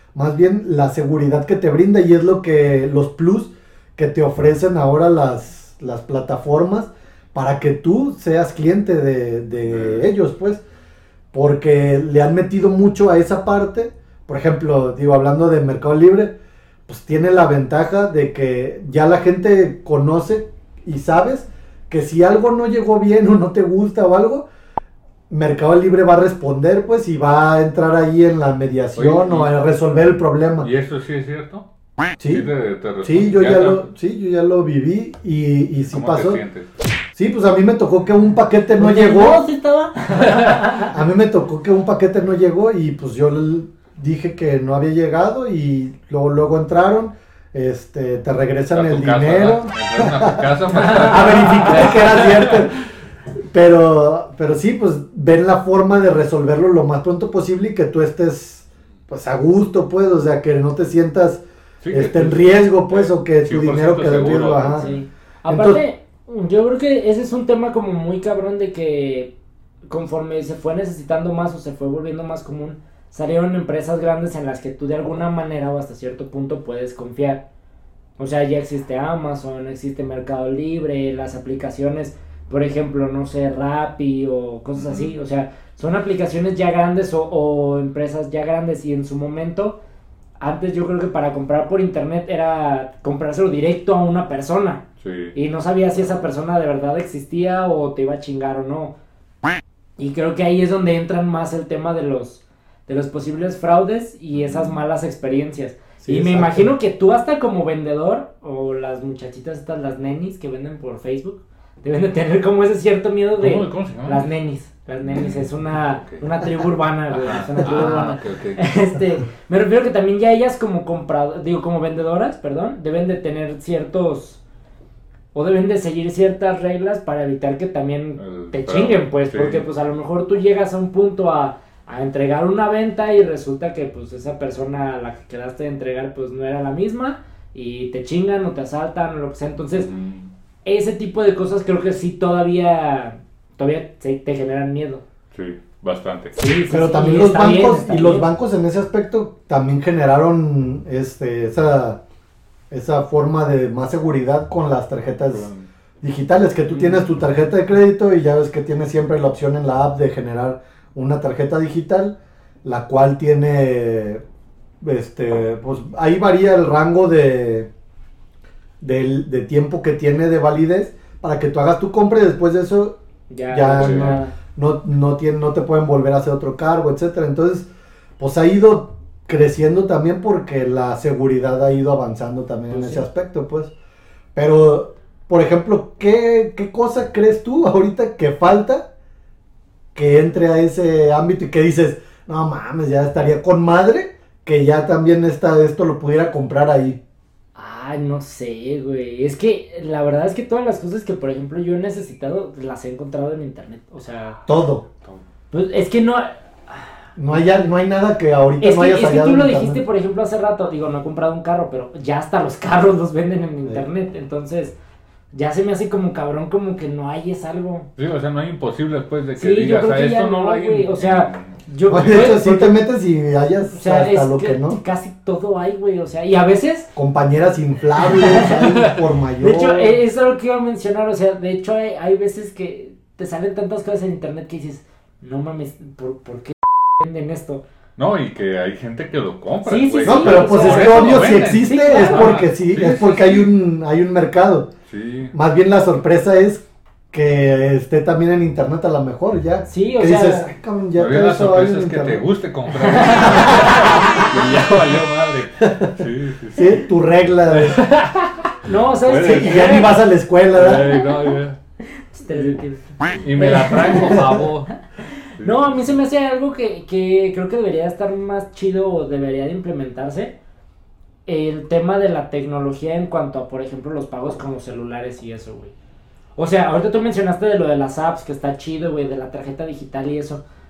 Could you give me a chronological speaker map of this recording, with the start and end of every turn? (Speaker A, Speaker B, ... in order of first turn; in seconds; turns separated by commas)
Speaker A: 0.1-10.6, Speaker B: 9.7-10.1, Speaker A: 11.3-16.3, Speaker A: 16.9-24.5, Speaker A: 25.3-30.7, Speaker B: 28.9-29.5, Speaker B: 30.6-31.6, Speaker A: 32.2-32.5, Speaker B: 32.3-33.8, Speaker A: 33.0-36.4, Speaker B: 35.9-36.6, Speaker A: 37.1-39.5, Speaker C: 38.8-40.9, Speaker B: 40.1-40.7, Speaker A: 40.8-52.8, Speaker B: 48.7-52.7, Speaker C: 50.8-51.8, Speaker A: 53.5-64.8, Speaker B: 61.8-65.0, Speaker C: 64.8-69.3, Speaker A: 65.5-65.8, Speaker C: 69.9-77.4, Speaker C: 78.2-89.8, Speaker B: 84.8-85.1, Speaker C: 90.4-94.8, Speaker B: 95.0-95.3, Speaker C: 95.3-98.9, Speaker C: 100.0-124.4, Speaker B: 104.3-104.8, Speaker A: 106.0-106.7, Speaker B: 113.3-114.3, Speaker B: 115.0-116.2, Speaker B: 117.1-118.6, Speaker C: 125.3-139.9, Speaker B: 128.2-129.6, Speaker B: 139.8-140.3, Speaker C: 140.6-145.0, Speaker B: 145.3-146.3, Speaker C: 146.3-148.2, Speaker A: 146.7-152.0, Speaker A: 152.7-155.5, Speaker B: 155.3-155.6, Speaker A: 156.0-164.2, Speaker A: 164.8-167.7, Speaker A: 168.8-173.0, Speaker C: 173.3-174.3, Speaker A: 173.5-177.7, Speaker B: 173.8-174.2, Speaker A: 178.2-183.7, Speaker C: 182.7-183.0, Speaker A: 184.3-188.8, Speaker A: 189.9-197.0, Speaker C: 197.6-204.4, Speaker A: 204.4-204.8, Speaker C: 205.5-206.9, Speaker A: 207.2-209.8, Speaker C: 208.6-214.7, Speaker C: 215.3-217.9, Speaker B: 218.0-222.3, Speaker C: 219.4-222.8, Speaker A: 221.9-224.8, Speaker C: 223.7-226.9, Speaker A: 226.9-229.9, Speaker C: 228.0-228.6, Speaker C: 229.4-237.6, Speaker B: 238.0-243.5, Speaker C: 239.7-242.4, Speaker A: 240.0-244.7, Speaker B: 244.9-245.3, Speaker A: 245.3-252.2, Speaker C: 249.7-250.5, Speaker B: 250.9-256.8, Speaker C: 252.8-254.3, Speaker A: 253.3-253.8, Speaker A: 255.6-255.9, Speaker A: 256.5-257.8, Speaker B: 257.5-258.5, Speaker C: 258.6-259.9, Speaker B: 259.1-259.9, Speaker A: 259.1-260.9, Speaker B: 260.5-261.6, Speaker C: 261.9-262.8, Speaker B: 263.2-264.7, Speaker C: 263.4-264.3, Speaker B: 265.4-265.8, Speaker C: 265.4-270.3, Speaker C: 271.2-275.7, Speaker C: 276.4-280.4